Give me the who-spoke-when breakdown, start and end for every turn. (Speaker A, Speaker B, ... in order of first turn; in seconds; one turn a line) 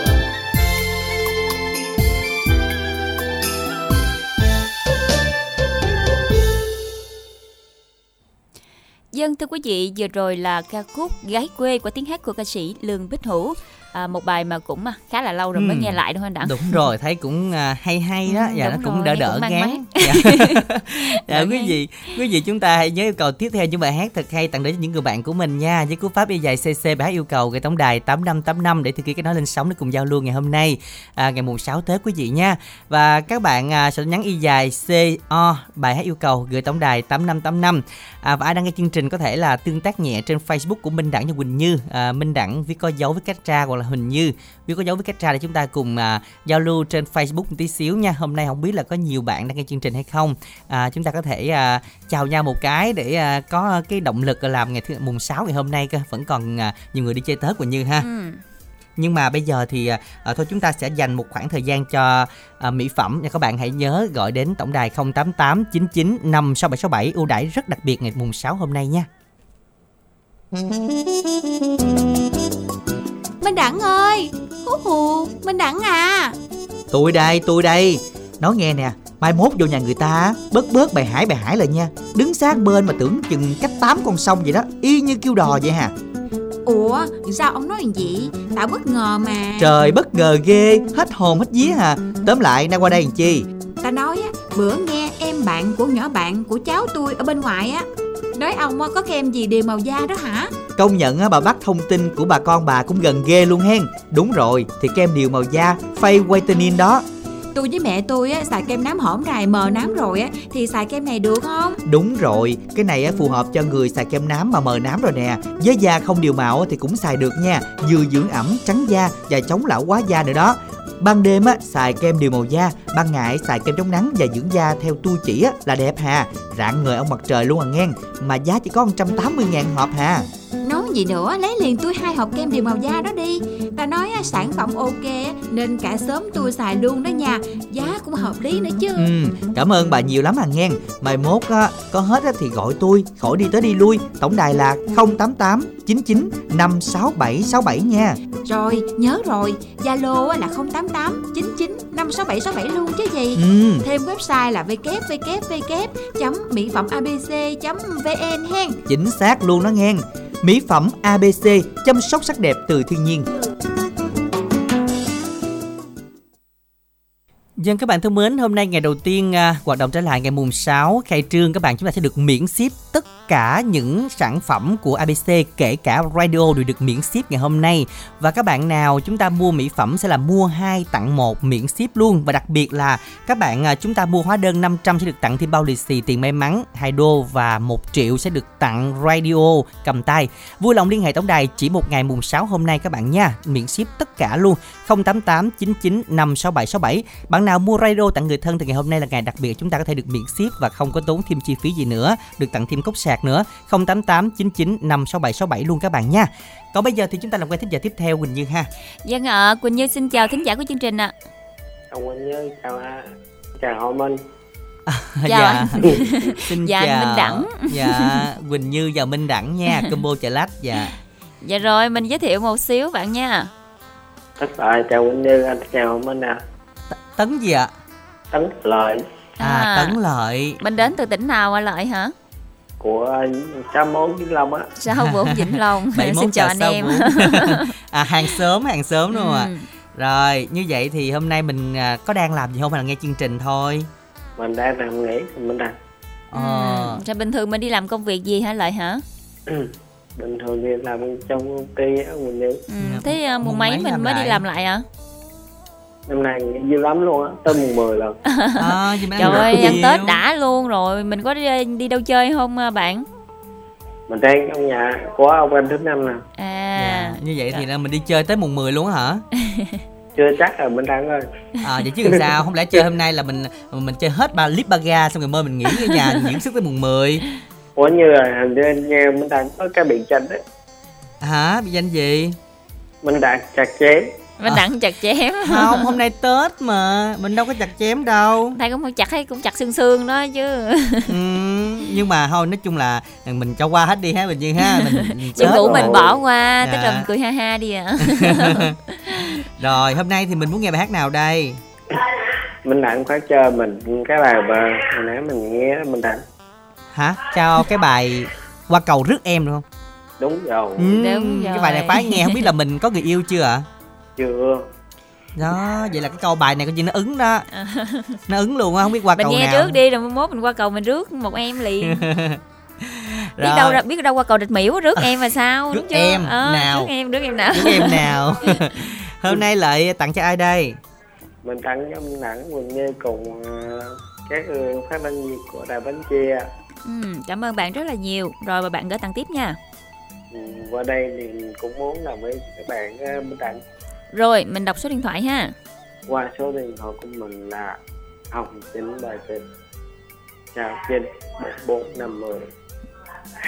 Speaker A: 9.1-16.8
Speaker B: 15.5-58.0
Speaker A: 18.3-20.6
Speaker A: 21.1-21.7
Speaker A: 58.0-58.4
Speaker B: 59.0-69.1
Speaker C: 73.4-76.3
Speaker D: 76.9-85.9
Speaker C: 86.7-89.7
Speaker D: 89.6-93.5
Speaker C: 93.8-100.5
Speaker D: 100.8-107.0
Speaker C: 107.5-111.8
Speaker D: 111.8-130.2
Speaker C: 130.6-139.1
Speaker D: 139.0-148.2
Speaker C: 148.4-158.8
Speaker D: 153.3-153.8
Speaker D: 158.8-163.2
Speaker B: 167.6-208.7
Speaker A: 209.0-211.1
Speaker E: 211.9-214.2
Speaker B: 214.9-220.9
Speaker A: 215.3-218.2
Speaker A: 221.4-223.5
Speaker E: 224.4-226.4
Speaker B: 226.9-227.7
Speaker E: 228.3-229.0
Speaker A: 229.4-229.9
Speaker B: 229.4-230.6
Speaker A: 230.6-232.1
Speaker E: 232.8-234.7
Speaker A: 234.8-237.7
Speaker B: 234.9-243.9
Speaker A: 239.1-239.7
Speaker E: 244.4-245.7
Speaker B: 246.3-247.0
Speaker A: 246.3-249.0
Speaker E: 249.5-252.6
Speaker A: 252.7-254.8
Speaker B: 252.8-254.4
Speaker E: 256.1-258.2
Speaker A: 258.3-263.1
Speaker B: 258.6-260.2
Speaker E: 259.3-259.7
Speaker E: 264.1-266.2
Speaker A: 266.4-267.6
Speaker B: 266.8-269.2
Speaker A: 269.4-269.8
Speaker E: 270.1-271.2
Speaker B: 271.6-277.2
Speaker A: 275.9-276.1
Speaker E: 277.8-280.4
Speaker B: 281.2-282.4
Speaker E: 283.0-284.1
Speaker A: 284.4-285.9
Speaker B: 285.4-288.6
Speaker A: 288.6-291.1
Speaker B: 291.1-296.1
Speaker A: 294.6-299.4
Speaker E: 295.4-296.2
Speaker B: 296.6-297.0
Speaker B: 298.0-298.7
Speaker B: 299.4-301.6
Speaker E: 302.6-306.2
Speaker B: 306.9-309.6
Speaker E: 310.2-310.9
Speaker B: 310.8-313.6
Speaker A: 311.0-312.5
Speaker E: 314.2-314.6
Speaker B: 315.4-317.4
Speaker A: 317.5-318.2
Speaker B: 318.3-319.8
Speaker A: 319.2-322.0
Speaker B: 321.8-323.8
Speaker A: 323.4-328.8
Speaker B: 325.7-326.9
Speaker B: 327.5-330.8
Speaker E: 331.4-336.5
Speaker A: 336.8-339.6
Speaker E: 340.3-343.6
Speaker A: 344.1-345.5
Speaker E: 346.1-347.8
Speaker E: 348.3-349.4
Speaker E: 350.5-352.5